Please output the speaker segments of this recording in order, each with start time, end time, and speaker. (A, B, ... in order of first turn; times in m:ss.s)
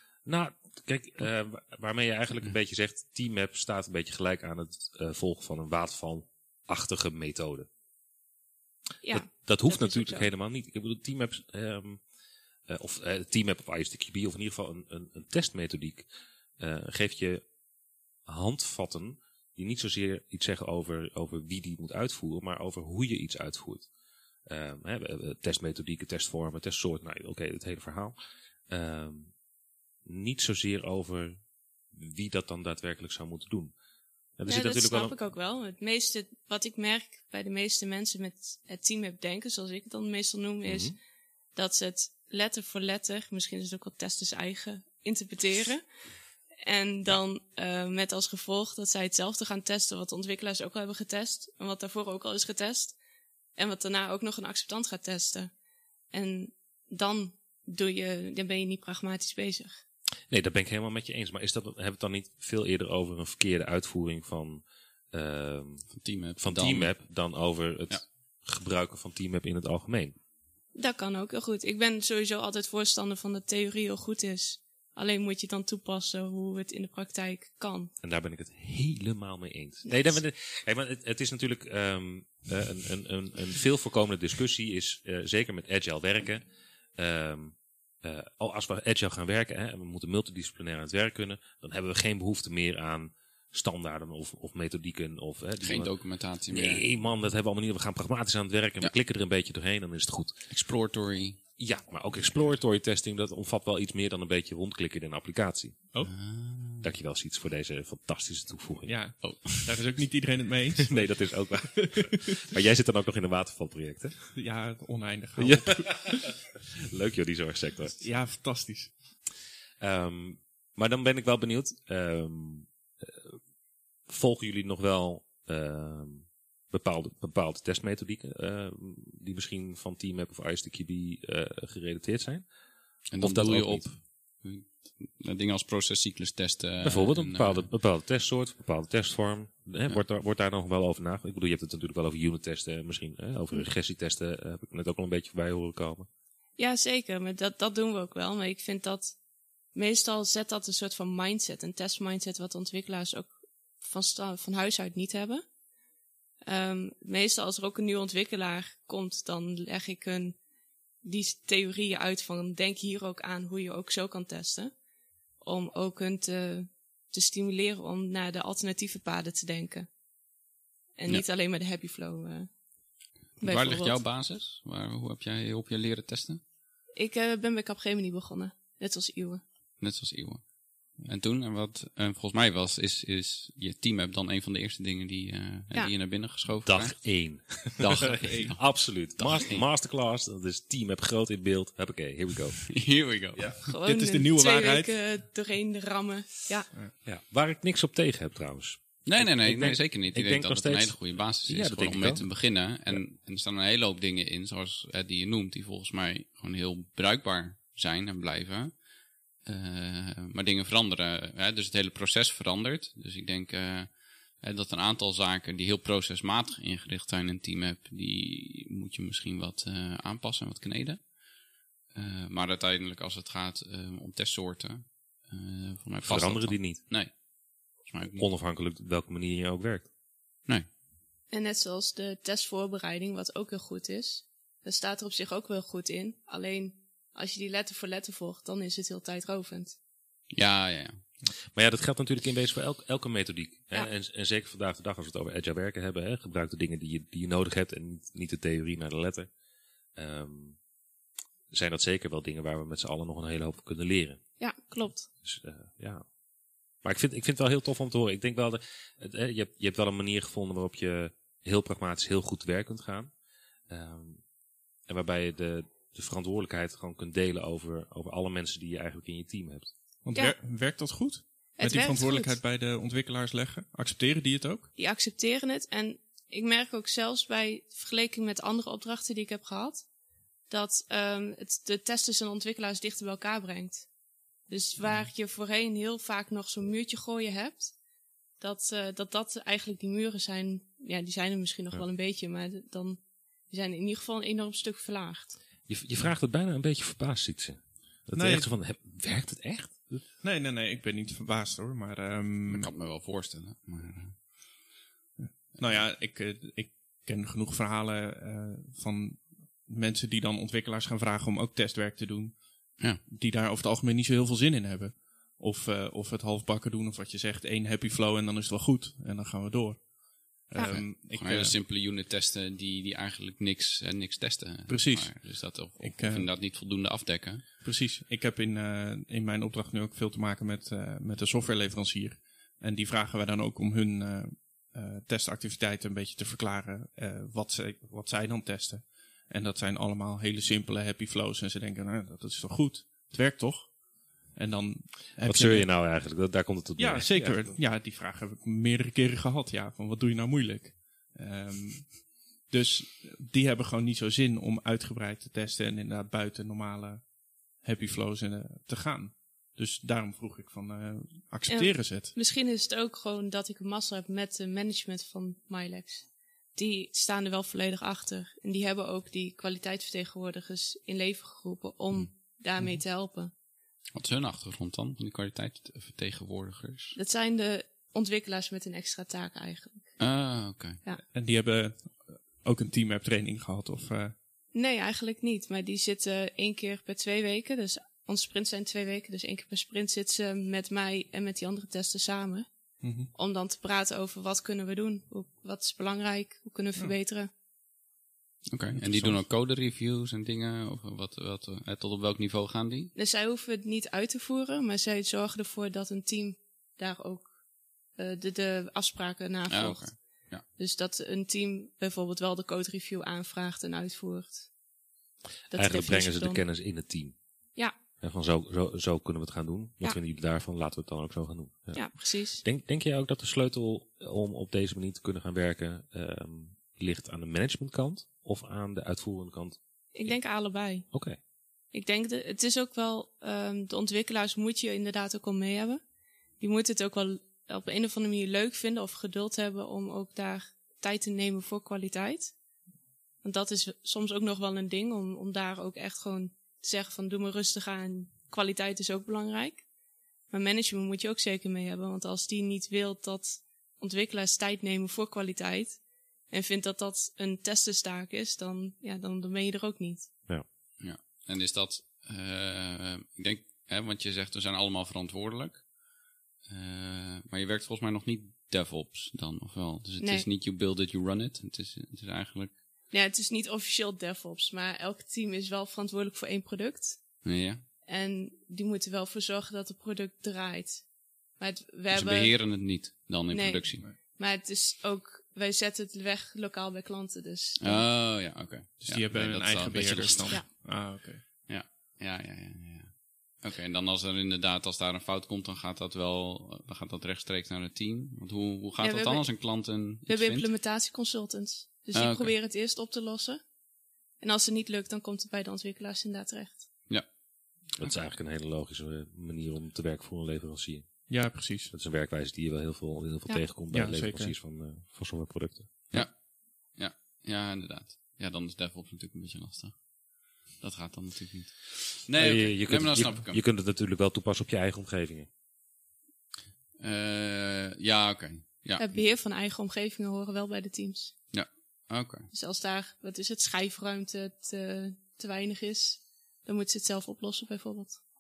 0:00.2-0:07.7 A
0:09.0-0:10.3 B
0:09.1-0:12.0 A
0:12.7-0:16.1 A
0:16.6-0:17.4 A
0:18.3-0:23.9 A
0:24.5-0:28.2 A
0:28.7-0:29.3 A
0:30.0-0:31.4 A
0:31.9-0:33.7 A
0:34.4-0:35.2 A
0:34.5-0:41.0 B
0:40.7-0:41.0 A
0:41.6-0:45.8 B
0:46.6-0:53.0 B
0:53.6-0:55.5 B
0:56.1-0:59.8 B
1:00.3-1:05.9 A
1:05.9-1:06.9 C
1:06.4-1:10.2 A
1:10.8-1:17.9 B
1:18.0-1:26.4 A
1:27.0-1:35.9 A
1:35.6-1:36.8 C
1:36.5-1:40.4 A
1:40.5-1:41.4 C
1:41.6-1:45.8 A
1:46.0-1:46.9 C
1:46.8-1:49.0 A
1:48.9-1:52.4 D
1:49.2-1:49.8 C
1:50.8-1:54.3 A
1:54.4-1:56.4 D
1:55.4-1:58.0 A
1:58.0-1:58.9 D
1:59.8-2:03.4 A
2:04.1-2:12.5 A
2:13.1-2:17.7 C
2:13.2-2:13.9 A
2:16.8-2:26.1 A
2:26.6-2:29.2 B
2:29.8-2:35.4 B
2:36.4-2:40.4 B
2:41.0-2:44.8 B
2:45.4-2:49.9 B
2:51.0-2:52.5 B
2:53.4-2:54.0 B
2:53.4-2:56.4 C
2:57.0-2:59.4 B
2:59.8-3:07.0 C
3:06.7-3:12.6 A
3:07.8-3:09.6 C
3:08.3-3:08.5 D
3:12.6-3:13.6 C
3:13.7-3:16.7 B
3:13.8-3:14.9 D
3:17.0-3:22.3 A
3:19.0-3:28.8 C
3:29.4-3:41.1 C
3:41.9-3:47.1 C
3:46.0-3:46.8 A
3:47.8-3:48.3 C
3:48.2-3:49.9 A
3:51.3-3:59.8 B
4:00.3-4:01.0 C
4:01.5-4:09.3 A
4:10.0-4:10.6 A
4:11.5-4:14.2 A
4:14.4-4:15.1 B
4:15.2-4:16.0 A
4:16.8-4:23.1 A
4:23.7-4:24.2 A
4:24.9-4:29.7 A
4:30.0-4:34.7 D
4:31.6-4:32.4 B
4:34.8-4:39.9 B
4:40.5-4:43.9 B
4:44.5-4:47.7 B
4:48.4-4:55.4 B
4:55.7-5:00.0 A
4:58.2-4:58.5 D
5:00.2-5:02.7 D
5:02.5-5:04.3 C
5:05.2-5:19.9 D
5:20.4-5:21.6 D
5:20.6-5:27.5 C
5:24.7-5:26.3 D
5:27.6-5:43.8 D
5:44.3-5:45.7 D
5:45.2-5:47.5 A
5:46.8-6:02.1 D
6:01.5-6:13.3 B
6:14.0-6:17.0 C
6:17.0-6:19.9 B
6:20.0-6:20.8 C
6:21.1-6:24.2 D
6:24.5-6:32.5 B
6:32.8-6:33.1 D
6:33.1-6:37.3 B
6:38.5-6:42.9 C
6:38.8-6:39.2 D
6:43.0-6:47.3 B
6:48.0-6:49.9 B
6:49.5-6:50.4 C
6:50.6-6:54.5 B
6:55.5-6:56.4 B
6:55.5-6:57.2 A
6:58.0-7:10.2 A
7:01.7-7:02.4 B
7:09.9-7:10.9 B
7:10.9-7:11.2 A
7:11.7-7:15.8 B
7:16.4-7:22.3 B
7:23.2-7:29.6 B
7:30.3-7:40.1 B
7:40.8-7:45.7 C
7:46.5-7:52.6 C
7:50.0-7:50.3 B
7:52.9-7:57.0 B
7:57.2-7:57.6 C
7:57.8-8:00.9 B
8:01.4-8:02.4 B
8:01.9-8:03.8 C
8:03.3-8:07.9 B
8:07.6-8:10.5 C
8:08.8-8:11.2 D
8:11.5-8:20.5 C
8:18.8-8:19.4 B
8:20.1-8:23.4 B
8:21.9-8:22.3 C
8:24.2-8:26.7 B
8:27.8-8:36.1 A
8:31.1-8:31.7 D
8:33.7-8:34.3 D
8:35.9-8:43.4 C
8:42.2-8:45.3 A
8:46.8-8:49.0 C
8:48.8-8:51.2 B
8:51.3-8:52.3 C
8:52.3-8:58.0 B